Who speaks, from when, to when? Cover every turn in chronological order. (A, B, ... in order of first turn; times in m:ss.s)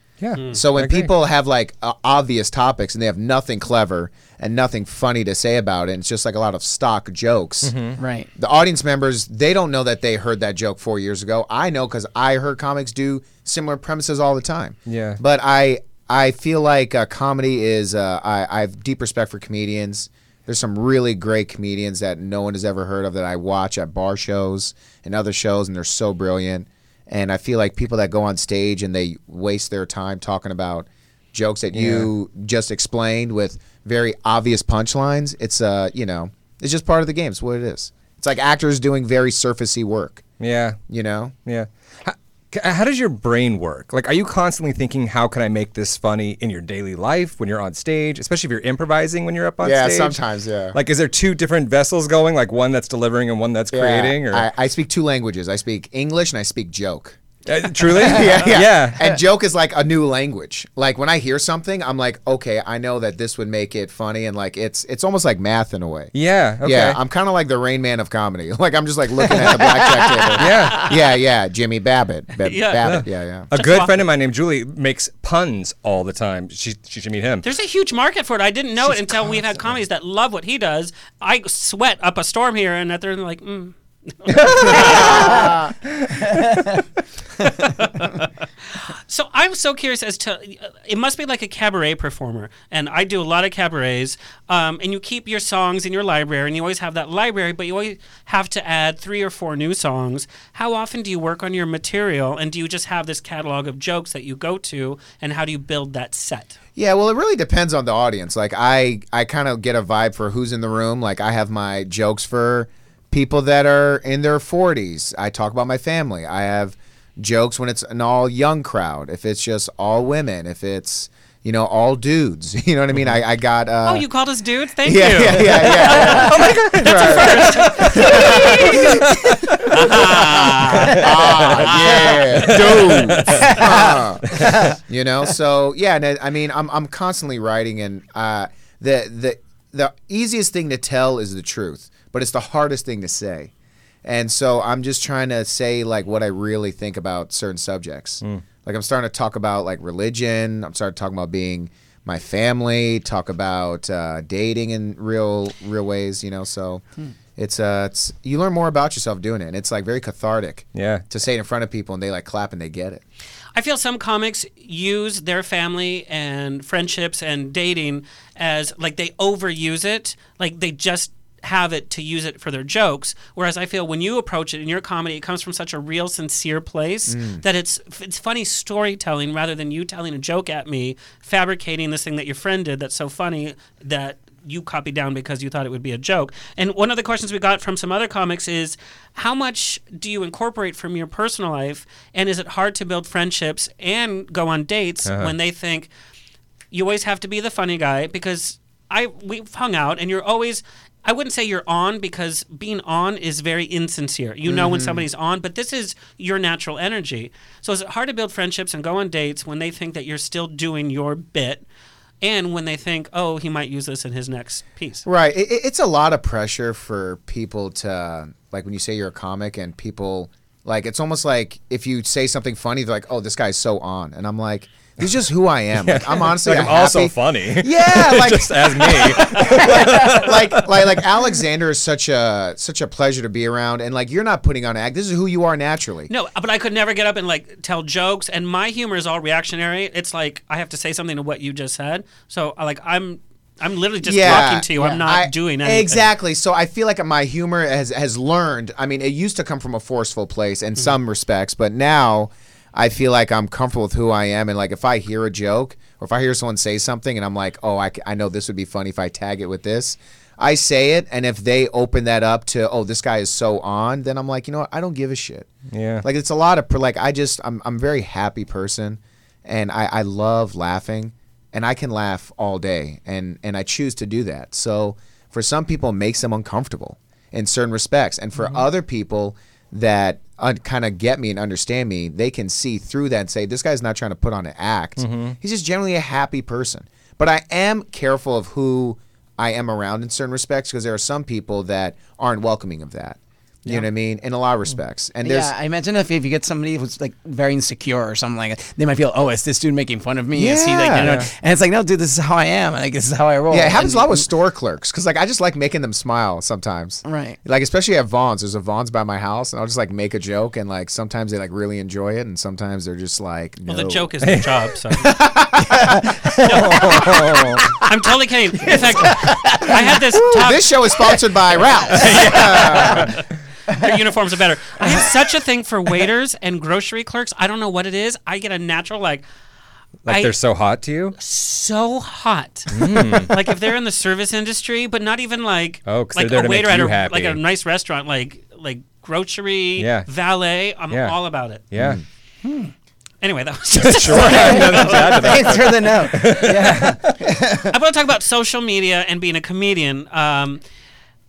0:00.2-0:01.1 A
0:00.3-0:00.6 B
0:00.5-0:07.7 C
0:07.6-0:08.0 A
0:08.0-0:08.3 D
0:08.4-0:40.2 C
0:14.9-0:15.2 A
0:31.7-0:32.1 A
0:40.4-0:40.8 A
0:40.9-0:41.3 C
0:41.4-0:50.2 A
0:49.6-0:50.8 C
0:50.7-0:54.5 A
0:53.7-0:57.2 C
0:57.4-0:59.2 A
0:57.9-1:13.5 C
1:06.1-1:07.0 A
1:09.4-1:10.3 D
1:10.4-1:10.9 A
1:12.4-1:13.0 B
1:12.8-1:17.4 A
1:13.5-1:14.0 B
1:17.4-1:25.5 B
1:24.7-1:25.7 C
1:27.5-1:28.3 B
1:28.9-1:46.6 B
1:46.8-2:04.1 C
2:03.8-2:12.6 B
2:04.8-2:23.5 C
2:05.9-2:09.7 A
2:10.8-2:13.7 A
2:13.3-2:14.8 D
2:14.3-2:14.6 A
2:24.0-2:36.8 C
2:37.4-2:43.0 C
2:40.7-2:41.0 A
2:43.5-3:15.9 B
2:57.1-2:57.4 C
3:15.0-3:15.3 A
3:16.7-3:31.6 B
3:24.5-3:25.0 D
3:32.2-3:35.0 B
3:35.0-3:56.1 C
3:45.7-3:50.9 A
3:56.1-4:06.1 B
4:04.0-4:25.5 C
4:04.8-4:05.0 D
4:25.7-4:26.0 A
4:26.0-4:55.5 C
4:45.0-4:45.4 A
4:55.2-5:04.3 D
5:00.3-5:01.1 C
5:00.9-5:01.3 A
5:03.5-5:14.2 C
5:07.0-5:07.4 D
5:13.7-5:15.1 B
5:15.0-5:16.1 C
5:15.6-5:17.8 D
5:16.4-5:17.6 A
5:17.8-5:20.7 B
5:18.6-5:20.3 D
5:20.3-5:23.2 C
5:21.9-5:23.2 B
5:22.0-5:23.1 D
5:22.1-5:22.3 A
5:23.8-5:29.2 B
5:30.0-5:31.1 A
5:30.1-5:30.3 B
5:31.2-5:41.6 B
5:32.7-5:33.4 A
5:35.8-5:37.4 A
5:39.8-5:40.1 A
5:40.9-5:41.2 A
5:41.7-5:42.0 A
5:42.4-5:42.7 D
5:43.2-5:45.5 B
5:43.7-5:47.2 A
5:44.1-5:47.7 D
5:47.7-5:50.6 B